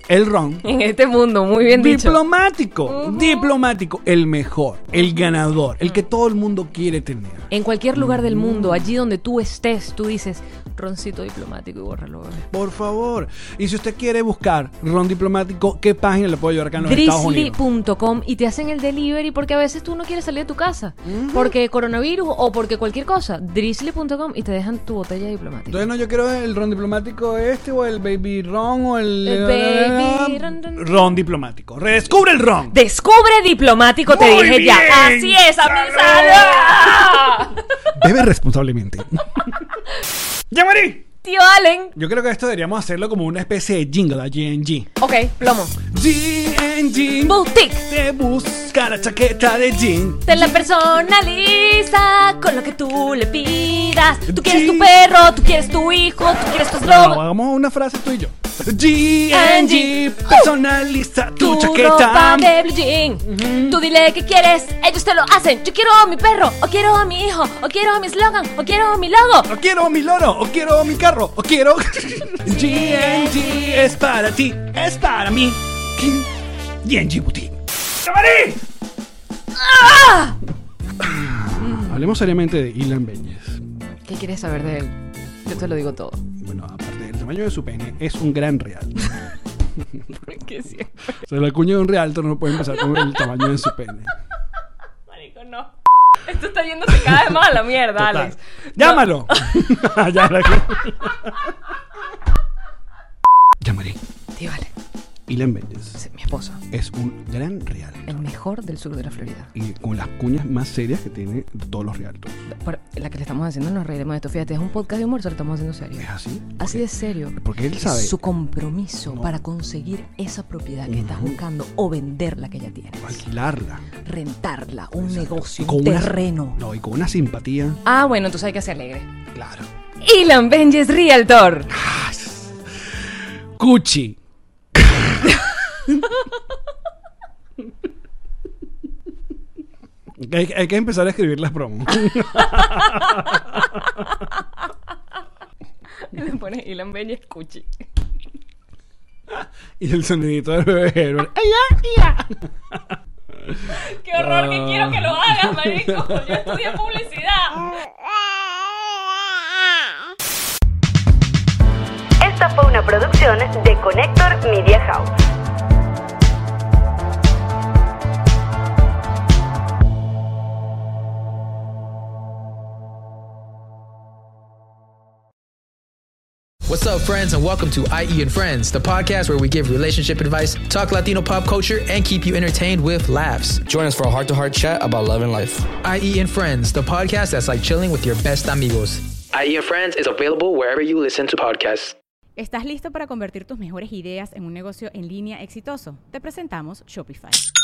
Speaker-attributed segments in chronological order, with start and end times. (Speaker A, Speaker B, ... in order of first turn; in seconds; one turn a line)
Speaker A: 0.1-0.7
Speaker B: 0.6-2.2
Speaker A: 1.7-8.9
Speaker B: 2.9-3.5
Speaker B: 7.5-12.5
Speaker A: 12.5-17.6
Speaker B: 16.8-25.9
Speaker A: 21.0-21.6
Speaker A: 25.7-32.8
Speaker B: 29.2-31.1
Speaker B: 32.7-37.7
Speaker A: 34.1-37.3
Speaker A: 37.9-39.8
Speaker A: 40.5-41.1
Speaker B: 41.2-42.0
Speaker A: 42.0-44.9
Speaker B: 45.0-45.8
Speaker A: 45.9-50.5
Speaker B: 47.2-47.9
Speaker B: 50.3-57.2
Speaker A: 54.3-55.0
Speaker A: 56.8-62.5
Speaker B: 59.3-60.5
Speaker B: 61.4-69.5
Speaker A: 63.2-63.8
Speaker A: 69.5-76.3
Speaker B: 72.5-74.0
Speaker A: 76.8-78.6
Speaker B: 79.6-80.4
Speaker A: 81.0-83.6
Speaker B: 81.6-81.9
Speaker B: 84.1-86.2
Speaker A: 86.4-89.2
Speaker B: 90.3-91.2
Speaker A: 91.2-94.1
Speaker B: 92.6-93.6
Speaker B: 95.1-95.7
Speaker B: 96.2-99.9
Speaker A: 97.9-101.5
Speaker A: 103.6-104.0
Speaker B: 104.3-104.7
Speaker A: 105.3-106.0
Speaker B: 106.0-106.6
Speaker A: 106.7-108.2
Speaker B: 108.1-109.5
Speaker A: 109.5-112.4
Speaker B: 112.5-123.2
Speaker A: 116.0-118.2
Speaker A: 119.1-119.3
Speaker A: 120.9-121.4
Speaker A: 123.0-123.9
Speaker B: 124.0-126.6
Speaker A: 124.9-127.8
Speaker B: 127.8-129.1
Speaker A: 129.3-129.7
Speaker B: 130.0-131.7
Speaker A: 131.7-134.2
Speaker A: 134.8-135.3
Speaker A: 140.2-144.1
Speaker B: 146.0-147.7
Speaker A: 149.3-156.7
Speaker B: 153.8-157.6
Speaker C: 162.2-165.1
Speaker D: 176.7-183.6
Speaker E: 183.6-185.7
Speaker D: 185.8-189.1
Speaker E: 189.3-192.0
Speaker F: 192.4-197.4